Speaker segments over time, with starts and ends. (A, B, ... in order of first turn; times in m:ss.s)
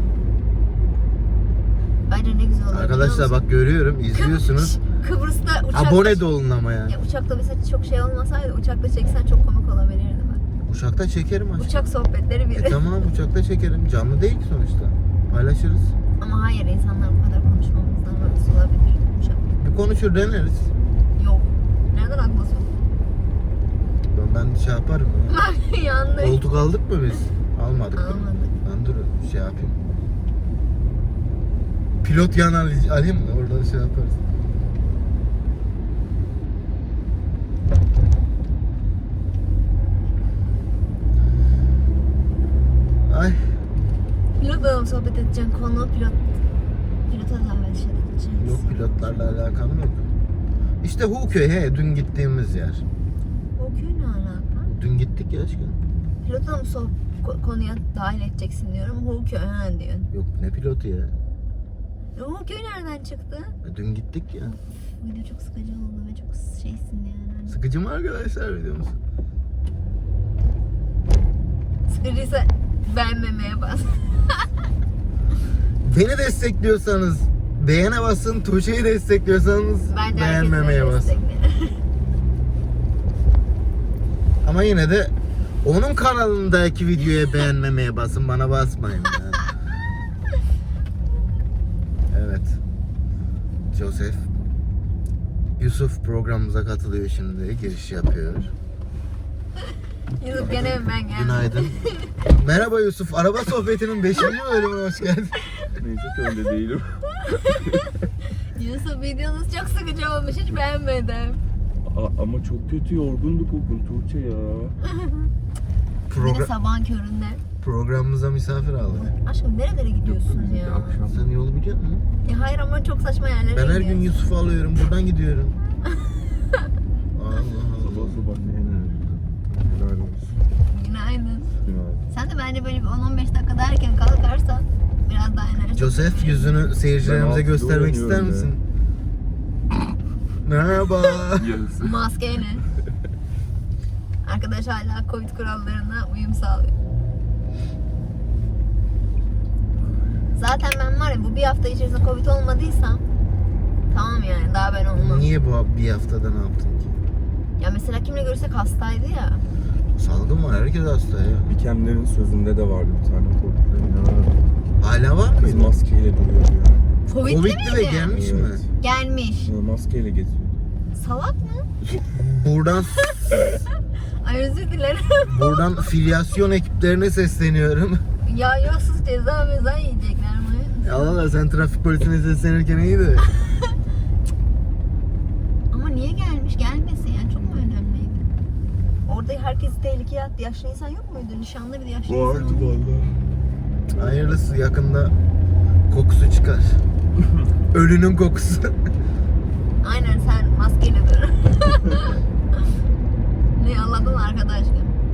0:02.1-0:03.4 A
0:02.7-0:04.8 B
0:04.1-0:06.2 A
0:05.7-0:06.9 B
0:06.9-0:10.4 A
0:10.7-0:11.9 B
0:11.6-0:12.8 A
0:12.5-0:15.9 B
0:16.2-0:19.5 A
0:19.6-0:20.7 B
0:21.2-0:22.7 A
0:24.1-0:25.4 B
0:25.3-0:26.4 A
0:26.2-0:29.8 B
0:28.0-0:28.5 A
0:32.0-0:34.2 B
0:43.1-0:43.4 B
0:44.4-0:46.2 A
0:47.1-0:49.0 A
0:48.4-0:50.0 B
0:50.8-0:52.8 B
0:53.6-0:54.7 A
0:54.7-0:55.8 B
0:56.2-1:00.1 A
1:00.1-1:01.1 B
1:02.2-1:03.5 A
1:03.6-1:04.6 B
1:05.0-1:07.6 A
1:07.5-1:09.0 B
1:11.9-1:14.5 A
1:15.8-1:21.2 B
1:19.9-1:21.8 A
1:24.4-1:25.1 B
1:25.6-1:29.5 B
1:32.1-1:32.6 B
1:33.7-1:34.3 B
1:35.6-1:38.5 B
1:40.2-1:42.2 A
1:40.4-1:45.4 B
1:45.8-1:47.9 C
1:47.2-1:51.4 A
1:51.8-1:54.8 C
1:54.9-1:55.3 A
1:56.1-1:56.5 B
1:56.1-1:57.4 A
1:57.6-1:59.1 B
1:58.9-2:01.0 A
2:00.0-2:01.3 C
2:01.1-2:02.0 B
2:02.2-2:04.1 A
2:03.5-2:05.6 B
2:07.1-2:08.2 B
2:07.8-2:10.4 C
2:10.7-2:11.5 A
2:11.6-2:12.0 C
2:12.1-2:16.5 A
2:15.8-2:18.6 B
2:17.0-2:18.5 C
2:20.4-2:21.6 B
2:21.4-2:22.0 C
2:21.8-2:22.6 A
2:24.2-2:26.8 A
2:30.4-2:33.0 A
2:33.9-2:35.3 A
2:35.0-2:37.0 B
2:37.6-2:39.4 A
2:40.0-2:41.5 B
2:41.5-2:44.4 C
2:44.8-2:45.8 B
2:45.4-2:46.9 C
2:47.1-2:48.1 A
2:47.2-2:48.6 B
2:48.1-2:48.7 C
2:48.8-2:49.5 A
2:49.4-2:50.6 C
2:51.0-2:51.7 A
2:52.3-2:53.3 B
2:53.2-2:53.5 A
2:54.2-2:55.8 A
2:55.2-2:58.0 B
2:58.2-3:01.3 A
3:00.8-3:03.3 B
3:05.7-3:08.2 A
3:09.1-3:12.8 A
3:12.1-3:13.2 C
3:14.0-3:15.2 B
3:15.9-3:16.8 B
3:17.7-3:18.8 B
3:19.8-3:22.2 A
3:23.6-3:25.0 A